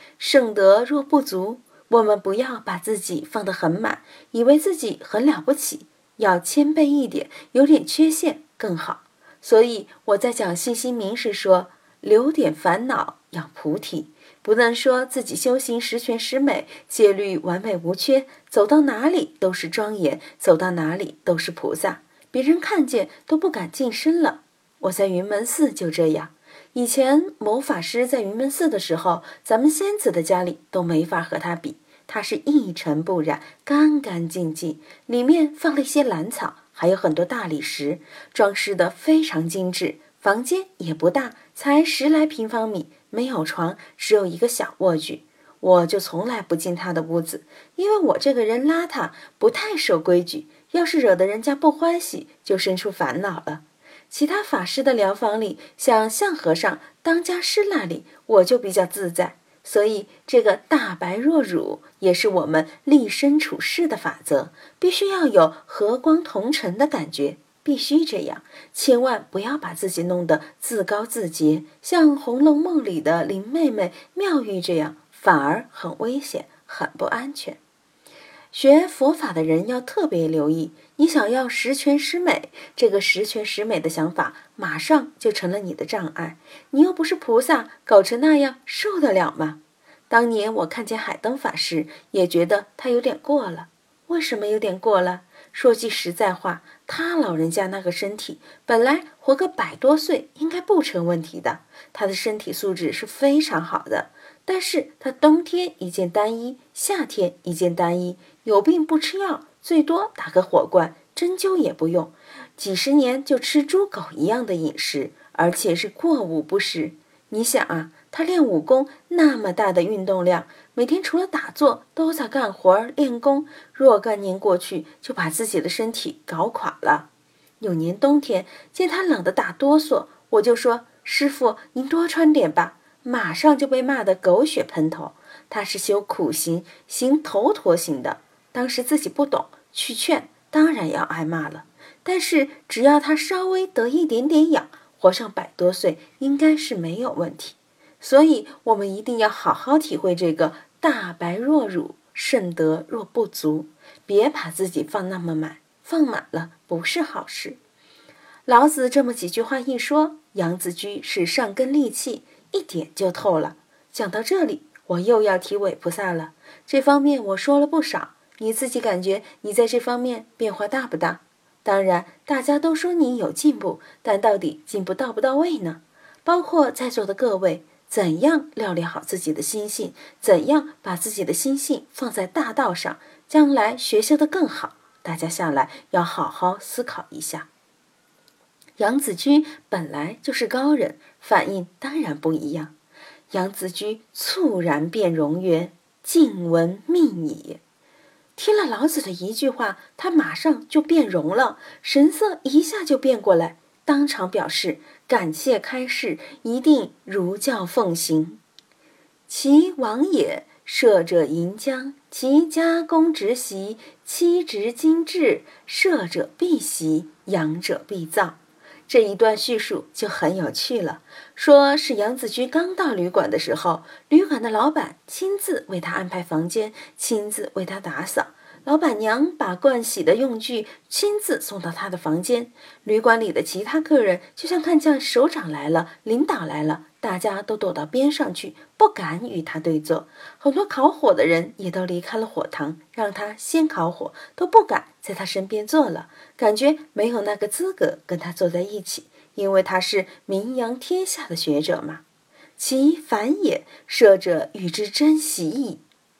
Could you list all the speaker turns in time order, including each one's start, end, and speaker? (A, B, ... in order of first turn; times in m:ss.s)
0:00.2-1:17.6 A
1:18.5-1:29.6 A
1:30.1-2:07.1 A
2:07.6-2:37.6 A
2:38.4-3:07.5 A
3:08.8-3:12.7 A
3:13.3-3:17.6 A
3:18.4-3:28.4 A
3:29.3-4:12.0 A
4:12.6-4:15.8 A